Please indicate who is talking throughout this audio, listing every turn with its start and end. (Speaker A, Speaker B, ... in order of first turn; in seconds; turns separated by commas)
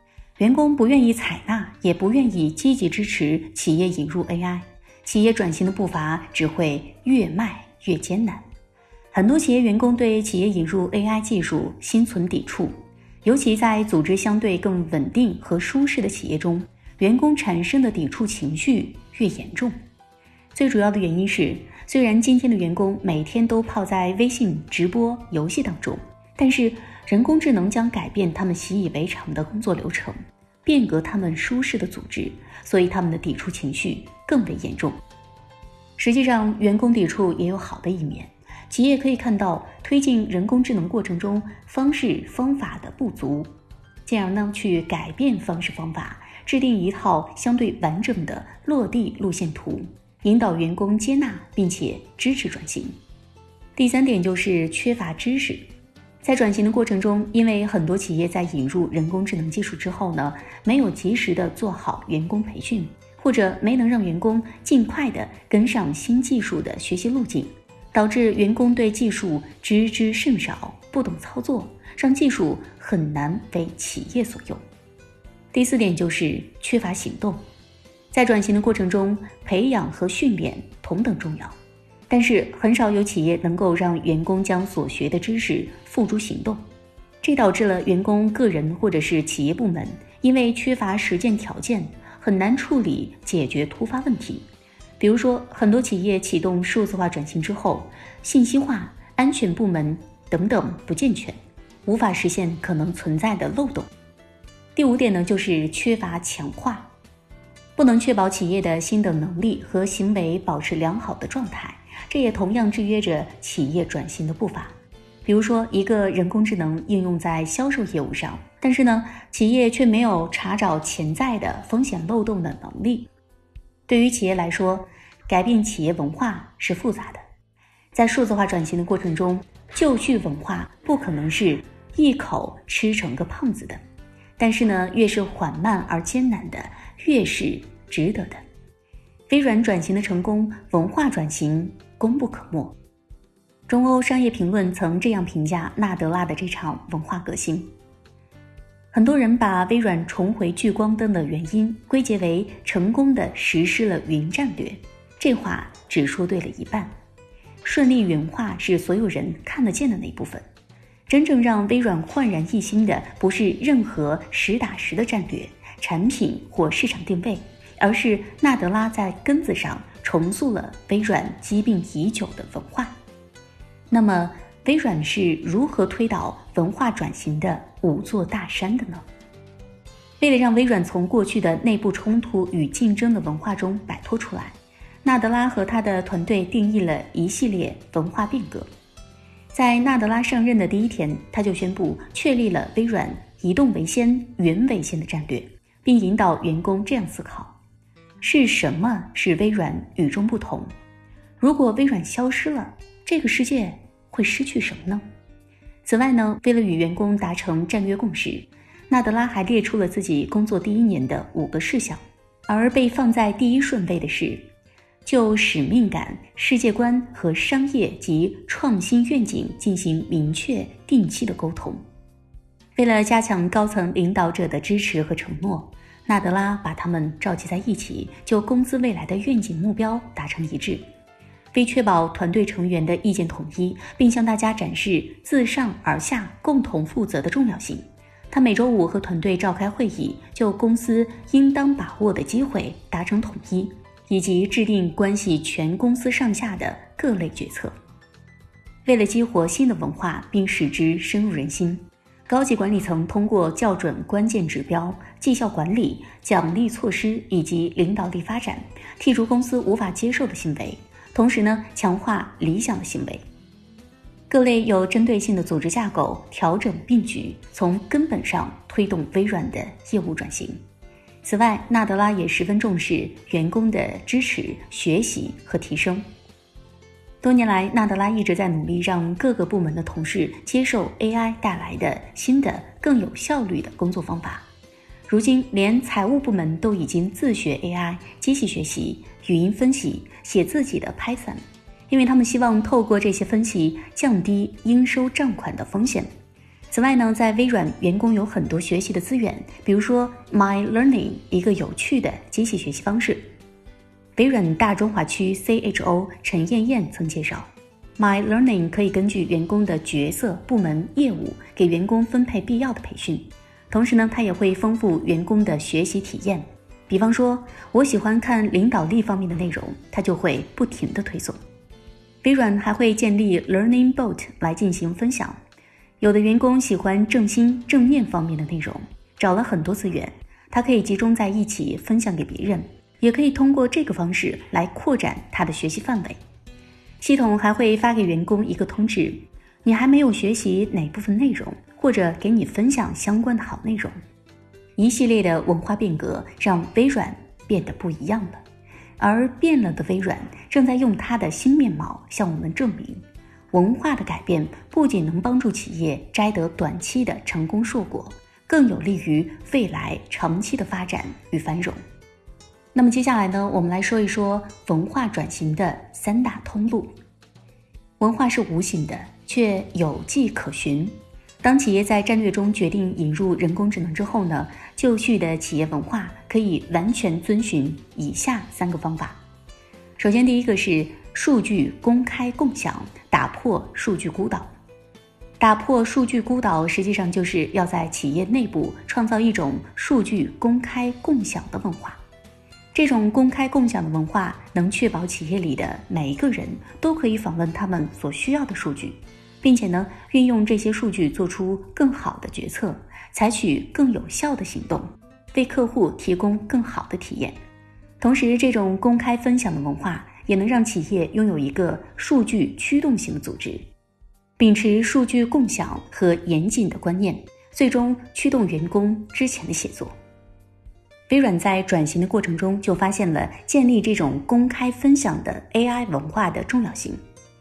Speaker A: 0.4-8.4, Speaker A: 9.1-19.8, Speaker A: 20.6-35.0, Speaker A: 36.0-43.5, Speaker A: 44.1-53.0, Speaker A: 53.8-55.7, Speaker A: 56.2-74.6, Speaker A: 75.5-77.4, Speaker A: 78.1-81.5, Speaker A: 82.1-86.6, Speaker A: 87.2-94.5, Speaker A: 95.0-103.9, Speaker A: 104.8-106.9, Speaker A: 107.8-114.7, Speaker A: 115.2-123.1, Speaker A: 123.9-127.2, Speaker A: 127.9-133.8, Speaker A: 134.4-138.4, Speaker A: 139.3-142.8, Speaker A: 143.7-147.7, Speaker A: 148.9-156.9, Speaker A: 157.6-160.4, Speaker A: 161.1-172.9, Speaker A: 173.9-179.0, Speaker A: 180.2-188.7, Speaker A: 189.5-197.6, Speaker A: 198.2-200.7, Speaker A: 201.4-205.0, Speaker A: 205.8-214.5, Speaker A: 215.1-221.8, Speaker A: 222.8-230.8, Speaker A: 231.5-247.7, Speaker A: 248.8-263.2, Speaker A: 264.3-270.6, Speaker A: 271.2-276.1, Speaker A: 277.2-284.5, Speaker A: 285.1-296.1, Speaker A: 296.7-303.3, Speaker A: 304.2-321.4, Speaker A: 322.2-325.4, Speaker A: 326.0-336.2, Speaker A: 337.0-343.9, Speaker A: 344.8-348.4, Speaker A: 349.0-361.8, Speaker A: 362.7-366.9, Speaker A: 368.0-379.2, Speaker A: 380.0-384.5, Speaker A: 385.4-392.0, Speaker A: 392.7-407.4, Speaker A: 408.0-413.6, Speaker A: 414.4-419.9, Speaker A: 421.1-427.0